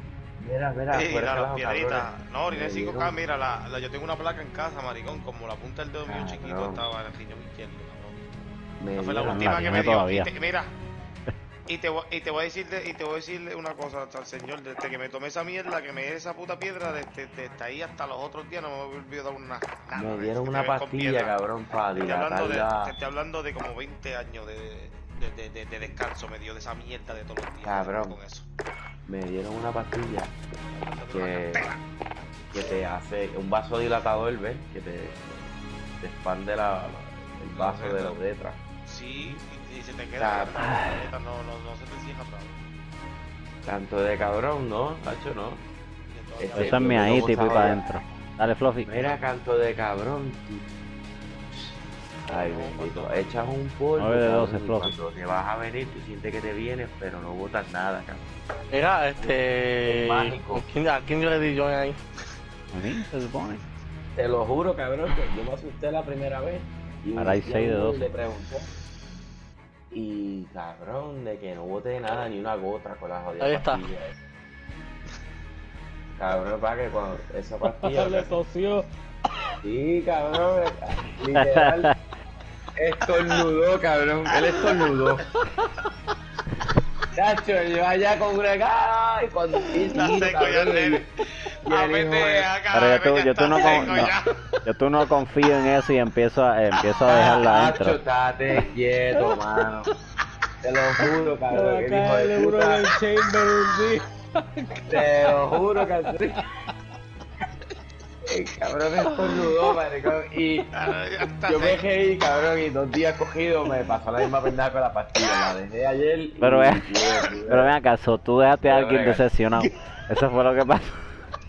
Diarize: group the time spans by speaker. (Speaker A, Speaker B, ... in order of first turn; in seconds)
Speaker A: 0.4-3.1, 6.0-6.8, 8.8-9.6, 19.9-22.9, 27.6-28.2, 29.1-30.4, 31.1-31.7, 32.5-38.6, 40.2-40.6, 43.6-45.6, 46.4-47.8, 48.9-50.7, 51.5-58.2, 59.2-60.6, 64.1-68.7, 69.9-74.2, 76.2-78.3, 79.6-81.9, 82.8-85.3, 87.1-91.0, 91.6-92.5, 97.1-99.9, 100.6-102.8, 104.9-106.4, 108.3-110.7, 111.5-117.7, 118.6-119.2
Speaker B: 0.9-8.2, 8.9-10.7, 11.7-21.3, 21.9-28.5, 30.7-31.8, 37.5-38.2, 38.9-42.6, 46.1-47.2, 52.2-53.5, 89.9-91.1, 91.6-94.3, 110.7-111.8
Speaker C: 9.3-10.3, 40.6-41.0, 46.5-48.9, 54.0-54.9, 62.7-63.6, 67.2-68.0, 81.3-81.9, 92.7-98.0, 116.4-116.9, 117.5-120.9
Speaker D: 58.7-62.0, 73.4-73.8
Speaker E: 77.8-78.9, 101.5-106.4, 109.2-109.5